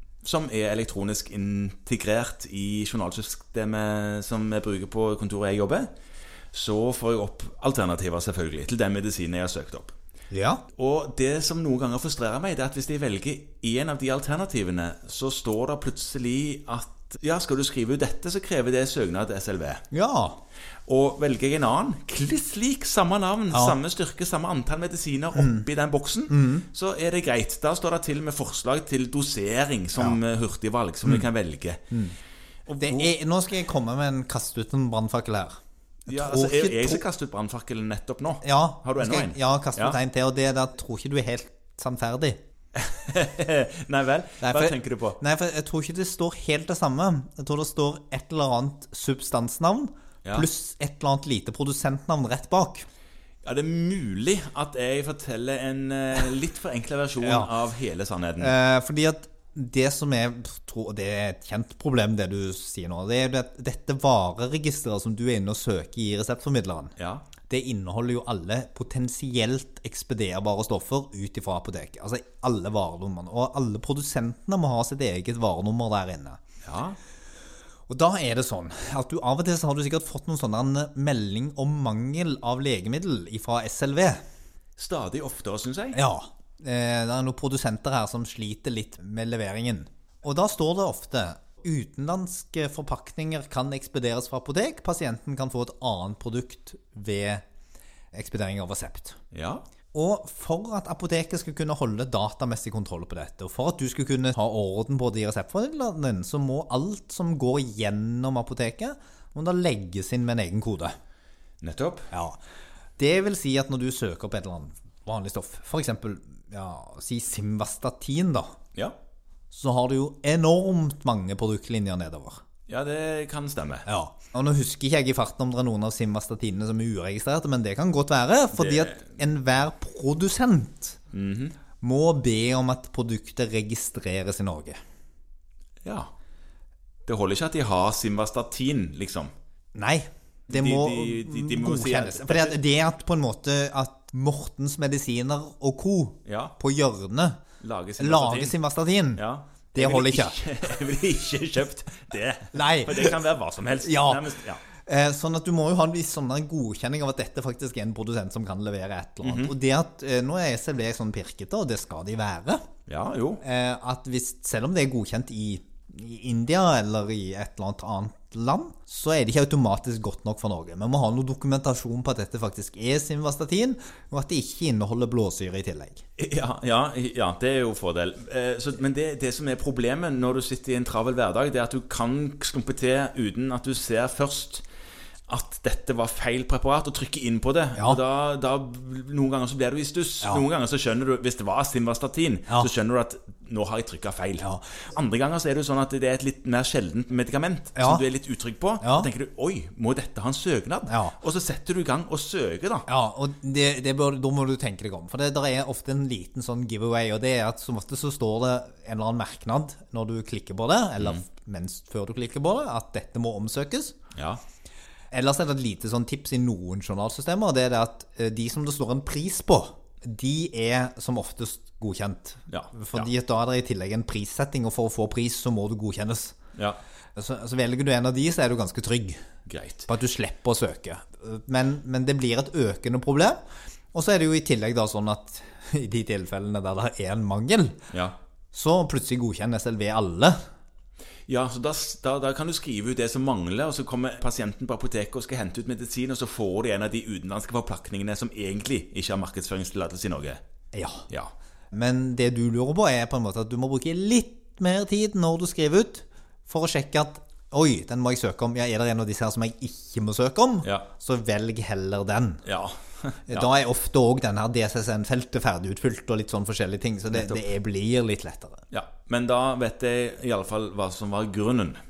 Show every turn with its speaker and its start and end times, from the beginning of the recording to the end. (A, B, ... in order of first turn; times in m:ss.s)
0:00.2-0:05.9 A
0:06.5-0:09.9 A
0:10.3-0:10.6 B
0:10.7-0:19.8 A
0:19.9-0:20.4 B
0:20.9-0:31.8 A
0:23.5-0:23.8 B
0:25.3-0:25.7 B
0:26.3-0:26.6 B
0:32.7-0:33.1 A
0:32.8-0:37.0 B
0:36.1-0:40.0 A
0:38.4-0:42.4 B
0:42.8-0:45.2 A
0:44.4-0:52.8 B
0:53.4-0:58.5 A
0:57.2-0:57.5 B
0:58.4-1:06.9 B
1:07.0-1:07.3 A
1:07.5-1:16.4 B
1:16.6-1:17.0 A
1:17.9-1:24.2 B
1:24.8-1:26.0 A
1:25.9-1:37.4 B
1:38.1-1:39.2 B
1:39.3-1:39.6 A
1:39.9-1:50.9 B
1:51.6-1:52.1 A
1:52.1-1:52.4 B
1:53.0-1:58.5 B
1:59.5-2:02.4 B
2:02.7-2:03.9 A
2:03.8-2:11.0 B
2:08.5-2:09.1 A
2:11.1-2:11.6 A
2:11.8-2:14.8 B
2:15.8-2:16.1 A
2:17.0-2:19.3 A
2:19.7-2:27.4 B
2:20.5-2:22.6 A
2:26.2-2:26.6 A
2:27.6-2:28.5 A
2:28.0-2:30.4 B
2:29.2-2:34.6 A
2:32.5-2:33.2 B
2:33.8-2:42.6 B
2:39.2-2:39.5 A
2:42.9-2:43.4 A
2:43.4-2:56.0 B
2:56.2-3:04.6 A
3:05.3-3:22.9 A
3:14.4-3:14.6 B
3:17.8-3:18.0 B
3:18.8-3:19.1 B
3:20.9-3:21.1 B
3:22.9-3:33.9 B
3:34.1-3:34.4 A
3:35.1-3:46.3 B
3:42.5-3:43.1 A
3:47.2-3:49.2 B
3:49.5-3:49.9 A
3:49.9-3:53.4 B
3:53.9-3:57.8 B
3:57.9-3:58.2 A
3:58.5-4:00.4 B
4:01.3-4:10.4 A
4:10.7-4:11.1 B
4:11.7-4:22.4 B
4:22.4-4:23.5 A
4:23.3-4:28.6 B
4:27.1-4:27.5 A
4:28.7-4:31.8 A